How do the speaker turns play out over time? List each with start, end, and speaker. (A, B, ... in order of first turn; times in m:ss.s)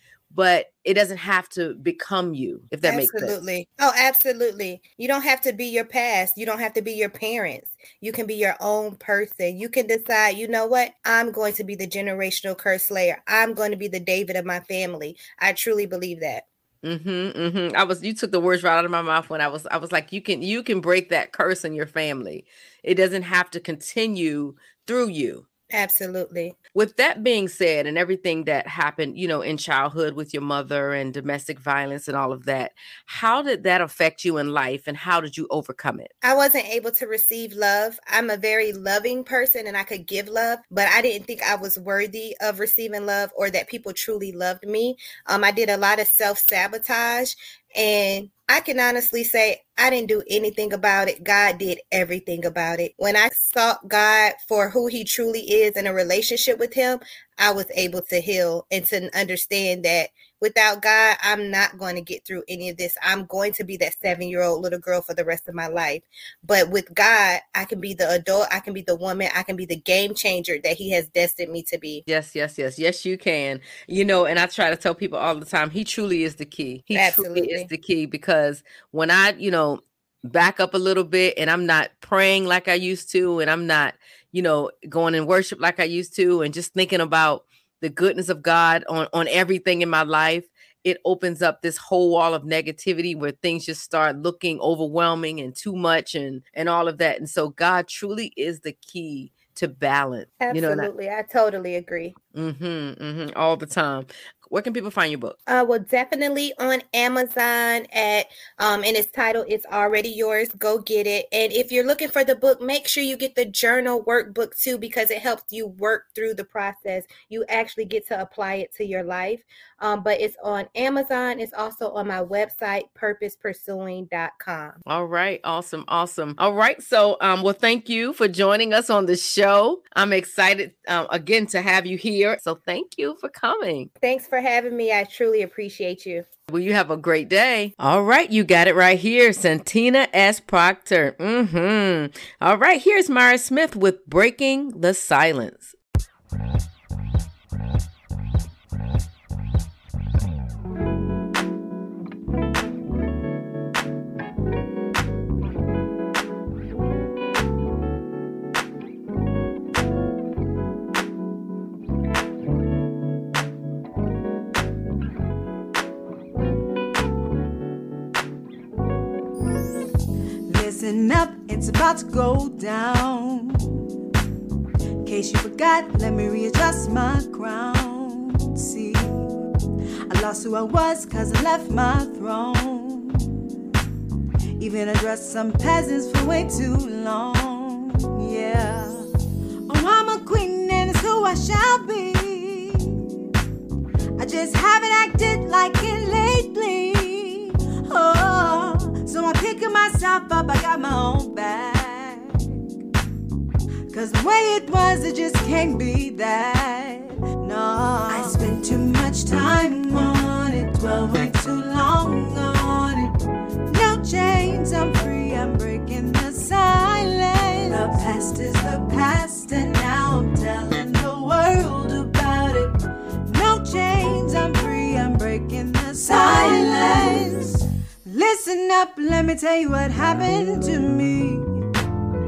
0:00.3-0:03.3 A
0:02.8-0:16.4 B
0:16.8-0:25.4 A
0:25.7-0:26.5 B
0:26.7-0:36.1 A
0:36.2-1:12.0 B
1:12.1-1:40.9 A
1:16.9-1:17.7 B
1:40.4-1:42.1 B
1:42.3-1:45.4 A
1:45.5-2:04.8 B
2:04.8-2:13.9 A
2:14.0-2:16.2 B
2:16.5-2:25.7 A
2:50.5-2:53.8 C
2:55.0-2:59.3 C
3:00.1-3:03.4 C
3:04.6-3:09.1 C
3:09.7-3:13.1 C
3:14.2-3:22.6 C
3:23.9-3:33.1 C
3:33.7-3:42.7 C
3:43.3-3:51.6 C